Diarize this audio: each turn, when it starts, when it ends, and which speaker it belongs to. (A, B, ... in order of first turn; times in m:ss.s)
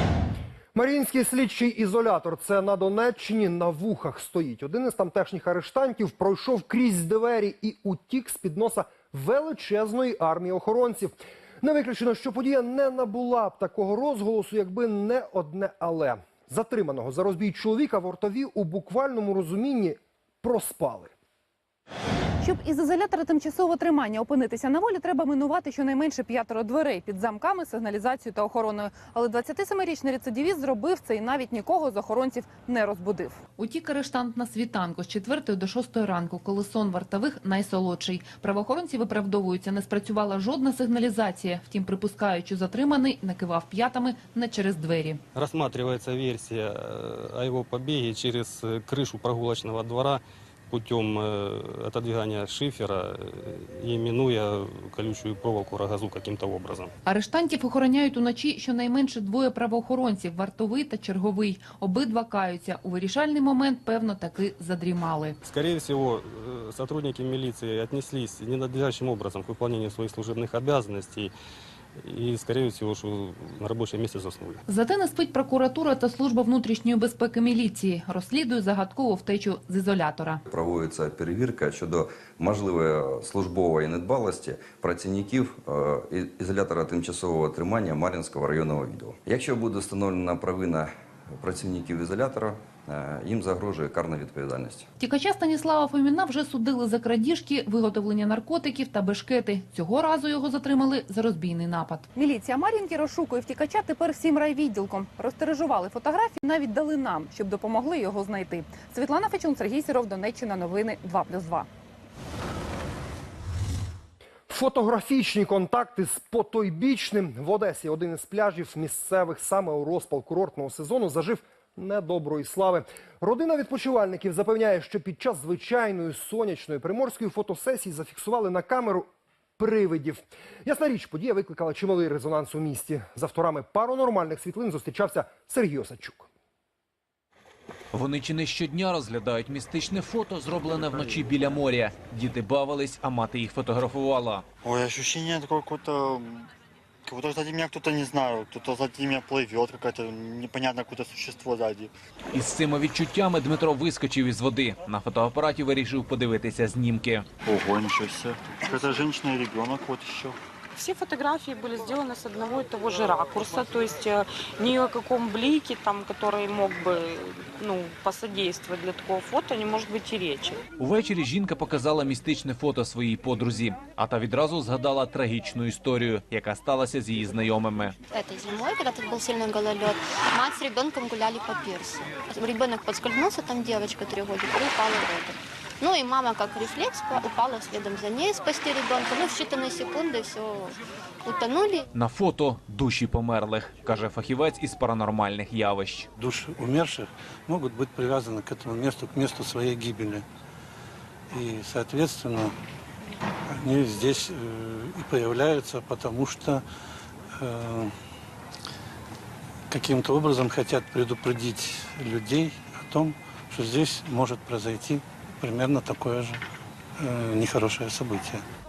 0:00.7-0:21.1 A
0:22.4-0:33.4 B
0:33.6-0:45.2 C
0:45.4-0:56.9 D
0:57.1-1:05.4 C
1:05.4-1:11.3 D
1:12.0-1:14.6 D
1:14.7-1:20.4 C
1:20.5-1:34.9 E
1:35.0-1:42.1 C
1:42.2-1:51.7 B
1:54.5-2:09.1 A
2:09.6-2:16.3 A
2:17.9-2:24.4 F
2:24.6-2:26.5 G
2:27.0-2:31.9 G
2:32.3-2:37.3 F
2:37.4-2:40.4 G
2:40.8-2:50.6 H
2:50.8-2:58.0 F
2:58.1-3:11.9 I
3:11.9-3:16.1 F
3:16.2-3:20.2 J
3:21.3-3:22.5 J
3:23.5-3:26.6 J
3:27.4-3:27.9 J
3:29.7-3:36.4 J
3:37.0-3:38.4 J